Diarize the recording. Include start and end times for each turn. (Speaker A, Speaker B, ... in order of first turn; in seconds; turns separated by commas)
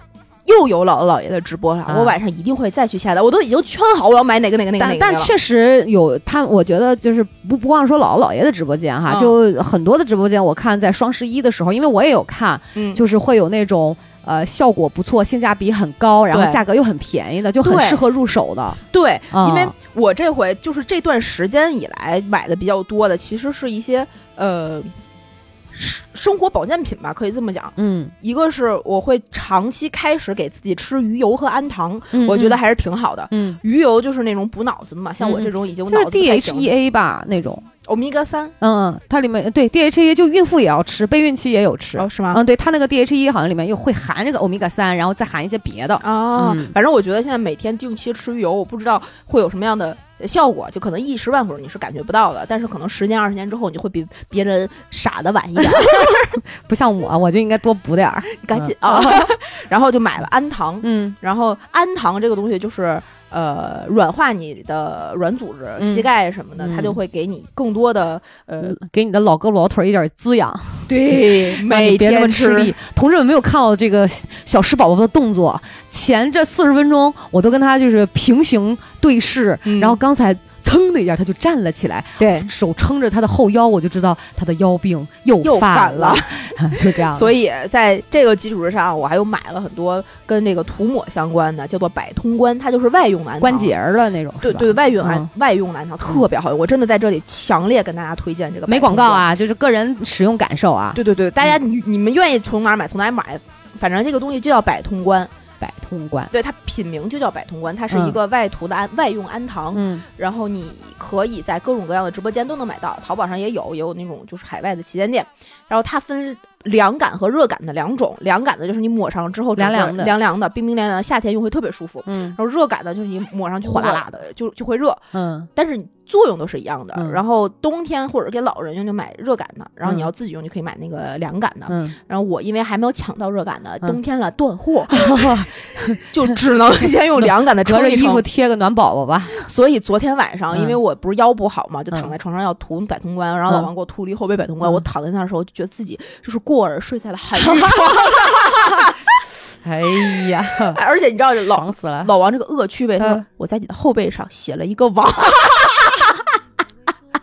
Speaker A: 0.5-5.3, Speaker B: 1.9-2.1, Speaker B: 4.8-19.7, Speaker A: 9.1-9.4, Speaker A: 12.8-13.0, Speaker A: 16.3-16.6, Speaker A: 17.6-18.0, Speaker A: 18.9-24.9, Speaker A: 25.7-36.7, Speaker B: 27.8-28.1, Speaker B: 32.1-32.6, Speaker B: 33.3-33.6, Speaker B: 35.2-37.7, Speaker A: 37.9-38.5, Speaker B: 38.6-46.8, Speaker A: 42.0-42.4, Speaker A: 46.0-56.4, Speaker B: 55.7-59.4, Speaker A: 58.4-68.8, Speaker B: 60.8-61.2, Speaker B: 65.8-66.1, Speaker B: 66.6-67.0, Speaker B: 68.6-87.3, Speaker A: 70.9-72.8, Speaker A: 79.7-80.0, Speaker A: 82.2-82.5, Speaker A: 85.4-93.7, Speaker B: 93.4-95.3, Speaker A: 94.4-99.3, Speaker B: 98.7-101.0, Speaker A: 101.0-105.3, Speaker B: 105.6-106.3, Speaker A: 106.3-138.2, Speaker B: 107.9-108.2, Speaker B: 109.7-110.0, Speaker B: 119.6-120.2, Speaker B: 122.1-122.4, Speaker B: 123.6-124.1, Speaker B: 125.1-125.5, Speaker B: 126.9-127.2, Speaker B: 129.8-130.1, Speaker B: 131.7-132.0, Speaker B: 134.9-136.3, Speaker B: 137.2-139.4, Speaker A: 139.3-149.0, Speaker B: 140.5-140.8, Speaker B: 147.4-148.6, Speaker B: 149.5-150.8, Speaker A: 150.3-156.2, Speaker B: 151.5-152.1, Speaker B: 153.0-153.2